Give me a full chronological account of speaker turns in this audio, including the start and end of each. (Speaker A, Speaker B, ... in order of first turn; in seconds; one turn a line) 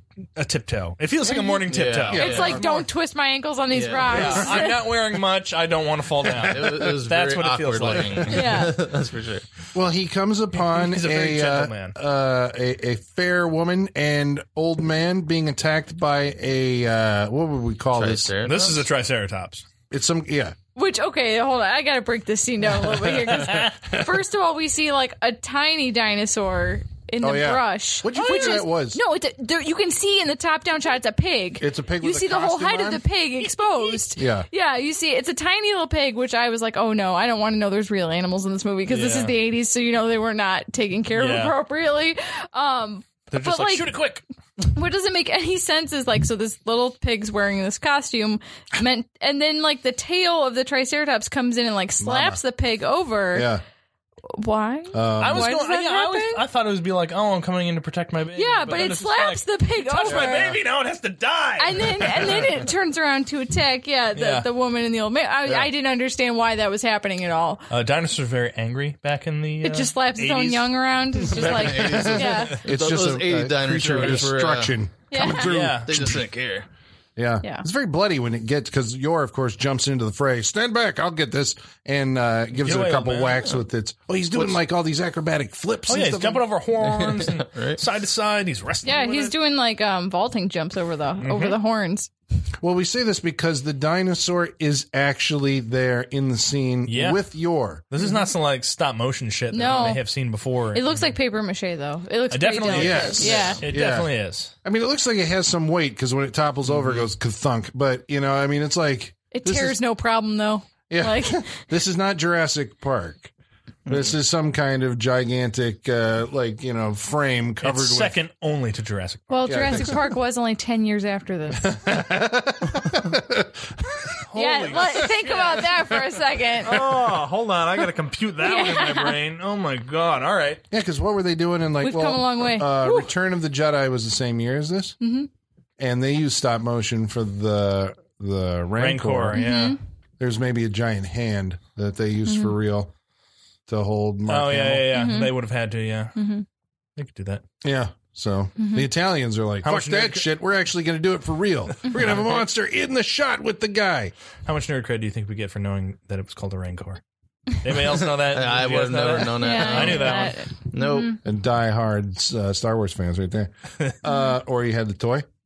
Speaker A: 0.3-2.6
Speaker B: 1.3-1.6
Speaker C: 1.7-2.8
Speaker D: 2.1-2.6
Speaker B: 2.1-4.8
Speaker C: 3.7-4.5
Speaker A: 4.1-8.6
Speaker C: 6.3-9.5
Speaker B: 8.3-8.8
Speaker D: 9.7-18.3
Speaker A: 10.6-11.9
Speaker C: 17.9-18.9
Speaker A: 18.4-19.6
Speaker D: 19.9-20.6
Speaker B: 20.7-43.9
Speaker D: 22.9-24.1
Speaker A: 23.3-23.7
Speaker D: 27.2-29.0
Speaker A: 28.1-28.6
Speaker D: 31.6-33.0
Speaker D: 34.1-34.5
Speaker A: 38.9-39.3
Speaker A: 41.1-41.5
Speaker A: 43.3-44.2
Speaker B: 44.7-53.5
Speaker D: 52.0-52.4
Speaker D: 53.3-53.6
Speaker B: 54.3-56.4
Speaker D: 54.9-55.6
Speaker A: 55.2-62.6
Speaker B: 58.3-60.6
Speaker D: 60.1-60.4
Speaker B: 61.6-67.7
Speaker A: 64.2-64.5
Speaker A: 67.7-70.7
Speaker B: 69.6-72.6
Speaker C: 71.3-74.7
Speaker D: 71.6-76.2
Speaker B: 75.1-75.5
Speaker A: 75.3-76.1
Speaker C: 75.8-76.7
Speaker D: 77.2-86.4
Speaker A: 82.6-83.4
Speaker A: 85.9-89.3
Speaker C: 86.8-87.8
Speaker B: 88.8-92.1
Speaker A: 91.2-91.6
Speaker D: 92.6-97.8
Speaker A: 96.9-97.3
Speaker A: 97.9-101.1
Speaker B: 99.5-100.0
Speaker B: 100.7-103.6
Speaker A: 102.3-104.5
Speaker D: 102.7-104.1
Speaker D: 104.6-109.8
Speaker B: 109.3-111.6
Speaker D: 110.9-113.3
Speaker D: 113.9-118.2
Speaker A: 117.6-119.9
Speaker B: 119.3-121.8
Speaker D: 119.4-120.0
Speaker D: 121.6-124.2
Speaker A: 124.2-125.7
Speaker B: 124.3-126.8
Speaker A: 126.6-130.6
Speaker B: 128.4-129.2
Speaker D: 130.7-135.0
Speaker B: 131.8-133.1
Speaker B: 135.0-135.3
Speaker D: 135.8-139.4
Speaker A: 138.8-139.7
Speaker B: 139.3-139.8
Speaker D: 140.2-142.9
Speaker D: 143.7-144.9
Speaker A: 144.3-146.2
Speaker B: 144.9-145.3
Speaker B: 146.2-146.4
Speaker A: 147.0-147.4
Speaker D: 147.6-154.1
Speaker B: 148.6-148.8
Speaker A: 149.6-150.3
Speaker A: 151.8-152.4
Speaker A: 154.4-157.0
Speaker A: 157.6-160.4
Speaker C: 157.8-161.2
Speaker B: 159.4-161.2
Speaker D: 161.2-165.2
Speaker B: 164.1-164.3